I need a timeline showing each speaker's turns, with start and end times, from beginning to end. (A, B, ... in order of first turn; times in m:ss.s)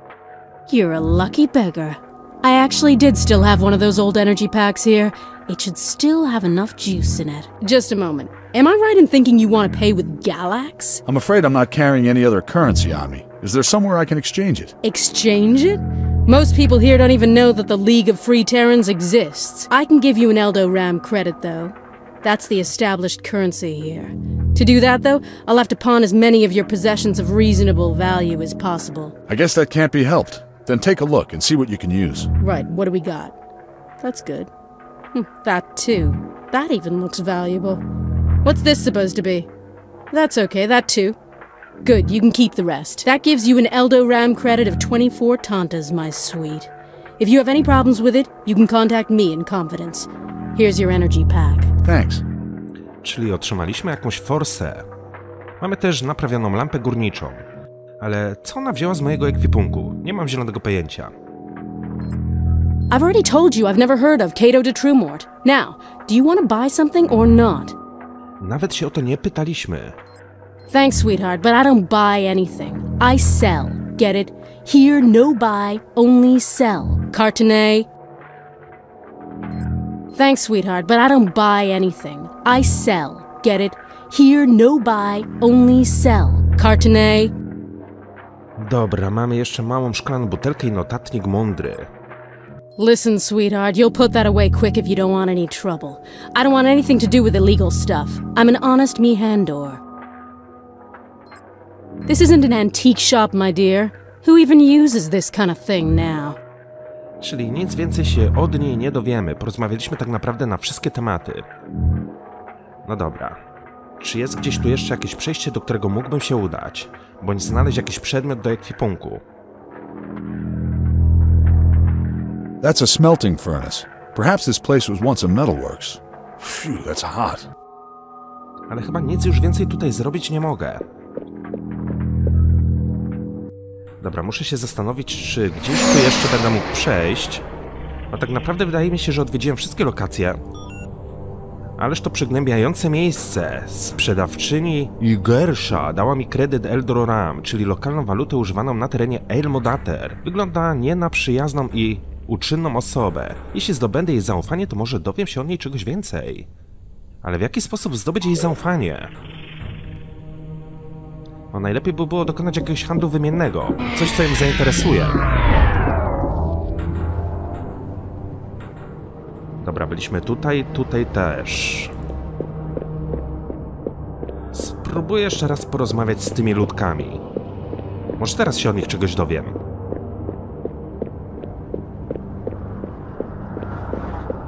0:00.7-0:11.0 A
0:11.1-0:14.7 B
0:14.8-0:29.1 A
0:29.3-0:32.3 B
0:32.4-0:33.3 A
0:34.0-0:34.5 A
0:35.1-0:37.8 A
0:38.4-0:39.5 A
0:40.1-0:41.2 A
0:41.8-0:51.7 A
0:51.8-0:52.2 B
0:53.0-0:54.9 C
0:55.6-0:57.4 C
0:58.0-1:01.1 C
1:02.9-1:07.8 A
1:08.4-1:10.0 C
1:10.7-1:17.9 A
1:20.2-1:27.3 A
1:28.6-1:31.9 C
1:32.8-1:39.8 A
1:42.1-1:46.4 A
1:47.2-1:51.5 C
1:52.9-1:53.4 C
1:54.0-1:59.2 C
2:02.6-2:07.5 B
2:08.7-2:10.8 C
2:14.0-2:17.4 C
2:18.1-2:20.4 C
2:21.8-2:36.5 C
2:37.2-2:39.1 C
2:41.5-2:45.2 C
2:49.6-2:51.9 C
2:54.5-2:57.2 C
2:58.2-2:59.6 C